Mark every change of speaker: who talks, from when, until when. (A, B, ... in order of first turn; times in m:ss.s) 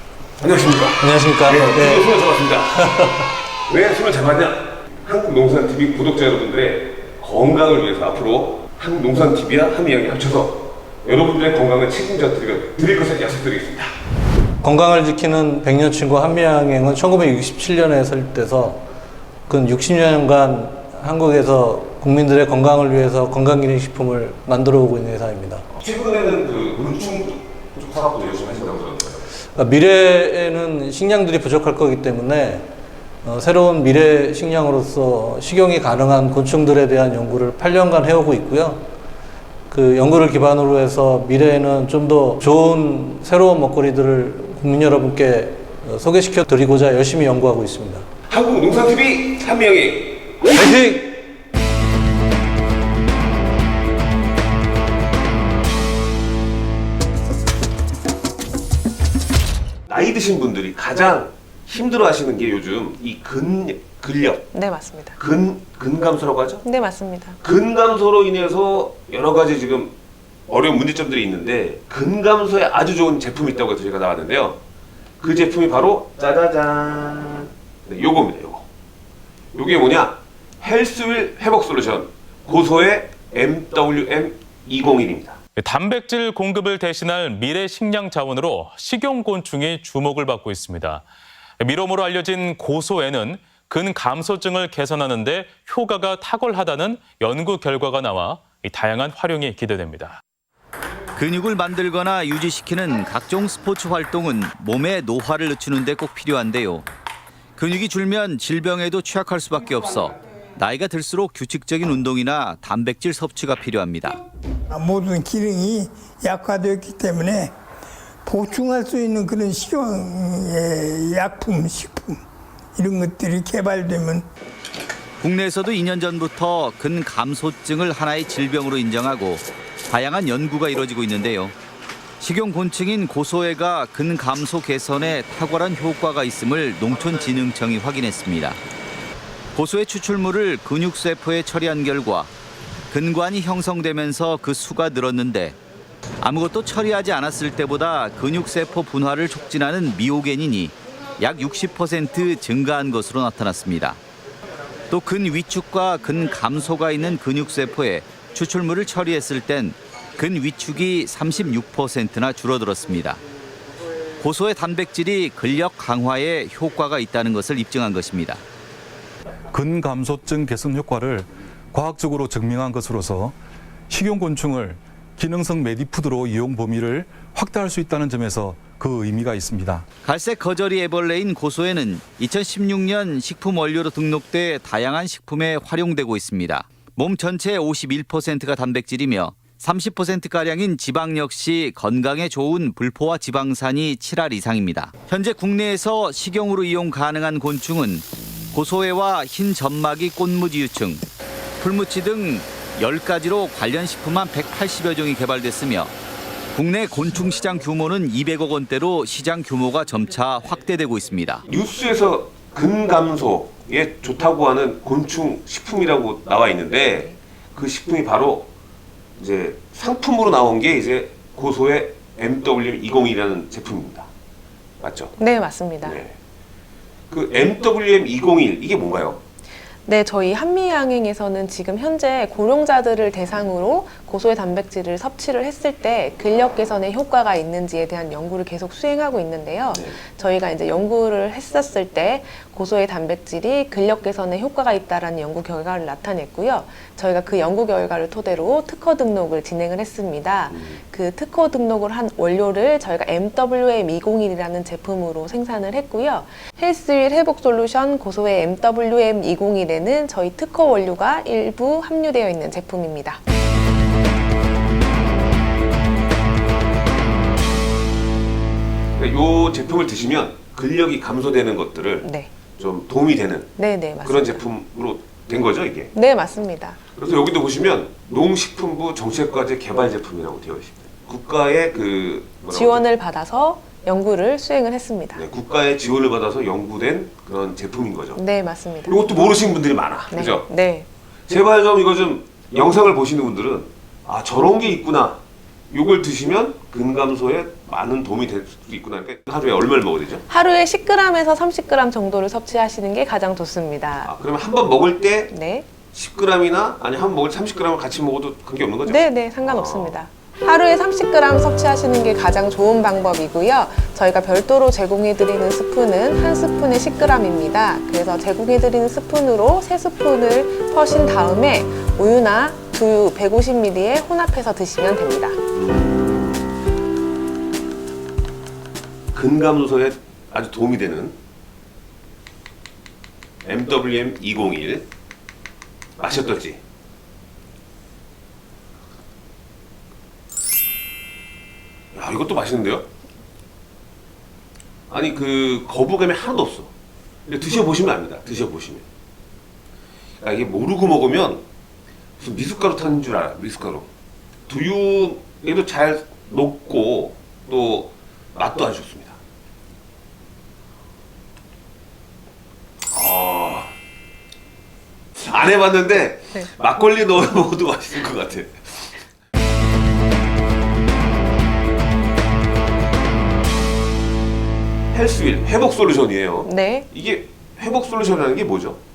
0:00.4-0:13.9 A
0:01.0-0:02.1 B
0:02.7-0:03.0 B
0:14.6-0:18.8 B
0:19.5-0:25.6 B
0:25.7-0:29.2 A
0:29.6-0:32.7 B
0:33.2-0:38.8 B
0:39.7-0:48.1 B
0:48.3-0:51.2 A
0:50.6-0:51.0 B
0:59.9-1:04.5 A
1:04.5-1:05.2 C
1:05.1-1:06.6 A
1:06.6-1:07.4 C
1:07.4-1:09.9 A
1:10.5-1:14.6 A
1:15.2-1:18.6 A
1:19.5-1:25.4 A
1:25.6-1:31.0 D
1:31.6-1:40.2 D
1:41.2-1:46.8 E
1:47.6-1:54.2 E
1:54.7-1:57.5 F
1:58.2-2:02.2 F
2:02.8-2:04.2 F
2:05.2-2:11.5 E
2:12.2-2:18.6 E
2:19.5-2:22.3 E
2:22.9-2:25.6 E
2:26.2-2:34.0 E
2:34.9-2:43.2 E
2:44.2-2:48.4 E
2:49.5-2:53.4 G
2:53.9-2:59.9 G
3:00.0-3:21.0 E
3:21.6-3:25.9 E
3:26.5-3:31.4 E
3:31.5-3:38.5 A
3:39.2-3:44.1 A
3:44.8-3:45.2 A
3:45.2-3:46.0 C
3:45.8-3:46.1 A
3:47.1-3:49.2 A
3:49.8-4:23.2 C
3:59.7-4:00.0 A
4:10.5-4:10.8 A
4:29.0-4:35.9 A
4:32.0-4:32.3 C
4:33.6-4:34.4 C
4:35.9-4:36.8 C
4:36.9-4:42.8 A
4:42.5-4:45.2 C
4:45.1-4:48.2 A
4:48.1-4:49.1 C
4:48.8-4:50.5 A
4:50.1-4:50.9 C
4:51.3-4:55.2 A
4:55.7-5:00.2 A
5:00.3-5:04.1 C
5:04.0-5:05.3 A
5:05.3-5:05.7 C
5:05.9-5:10.0 A
5:08.8-5:25.4 C
5:25.5-5:26.4 A
5:29.1-5:31.2 A
5:33.4-5:34.9 A
5:36.0-5:36.6 A
5:41.9-5:42.9 A
5:44.9-5:46.7 A
5:47.3-5:48.8 A
5:50.2-5:51.4 A
5:52.2-5:53.9 A
5:54.5-5:59.2 A
6:02.9-6:03.7 A
6:05.2-6:08.9 A
6:14.9-6:18.8 A
6:16.4-6:16.9 C